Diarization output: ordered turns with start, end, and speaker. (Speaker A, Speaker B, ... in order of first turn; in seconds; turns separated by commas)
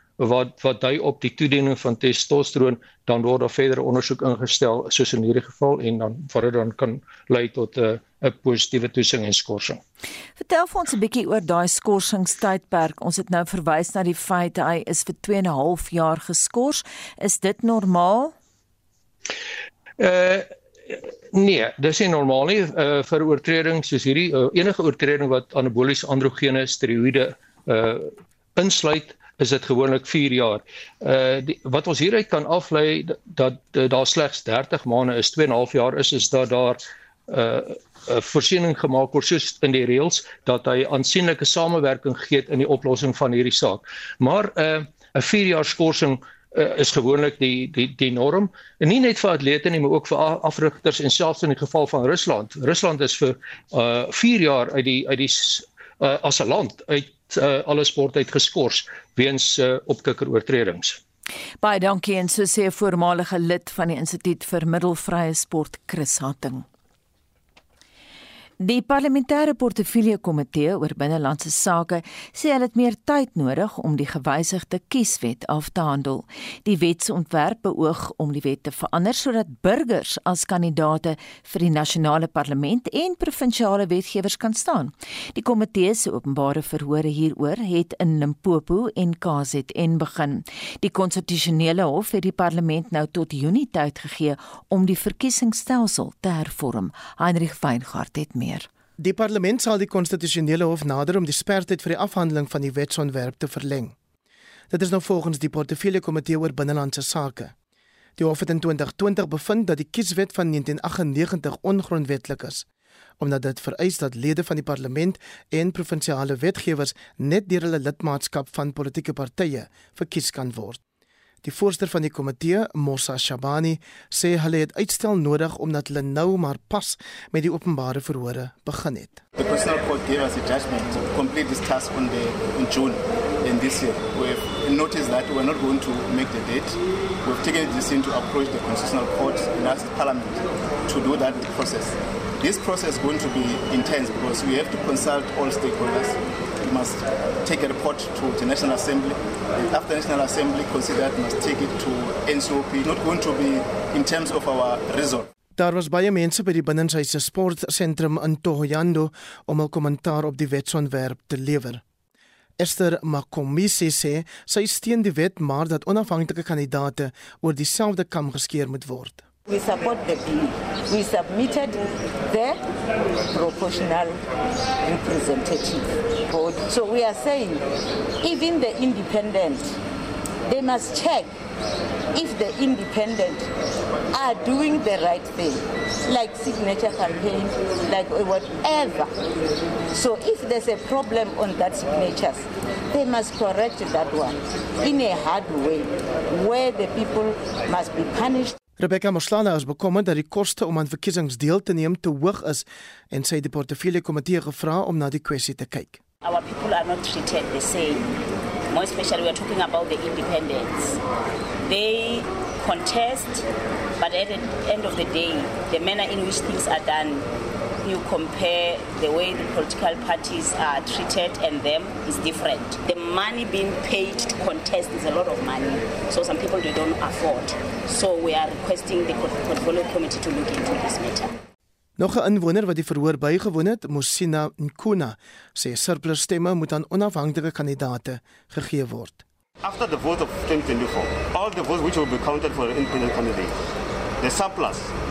Speaker A: 0.2-9.8, Speaker B: 10.4-18.3, Speaker A: 20.0-61.0, Speaker B: 61.6-66.6, Speaker B: 68.6-98.7, Speaker C: 99.0-103.9, Speaker C: 104.7-107.5, Speaker C: 108.2-112.6, Speaker C: 113.2-120.8, Speaker C: 121.4-129.2, Speaker D: 129.3-155.3, Speaker C: 155.6-161.8, Speaker C: 162.6-169.3, Speaker E: 169.5-172.6, Speaker E: 173.3-174.2, Speaker E: 174.8-177.6, Speaker E: 178.2-179.8, Speaker E: 180.4-181.3, Speaker E: 182.1-183.5, Speaker E: 184.1-189.1, Speaker E: 189.9-198.6, Speaker C: 198.8-206.0, Speaker F: 206.2-208.1, Speaker F: 208.7-211.0, Speaker F: 211.7-213.4, Speaker F: 214.0-217.2, Speaker F: 217.8-231.3, Speaker C: 232.0-239.2, Speaker G: 239.6-243.5, Speaker G: 244.2-244.9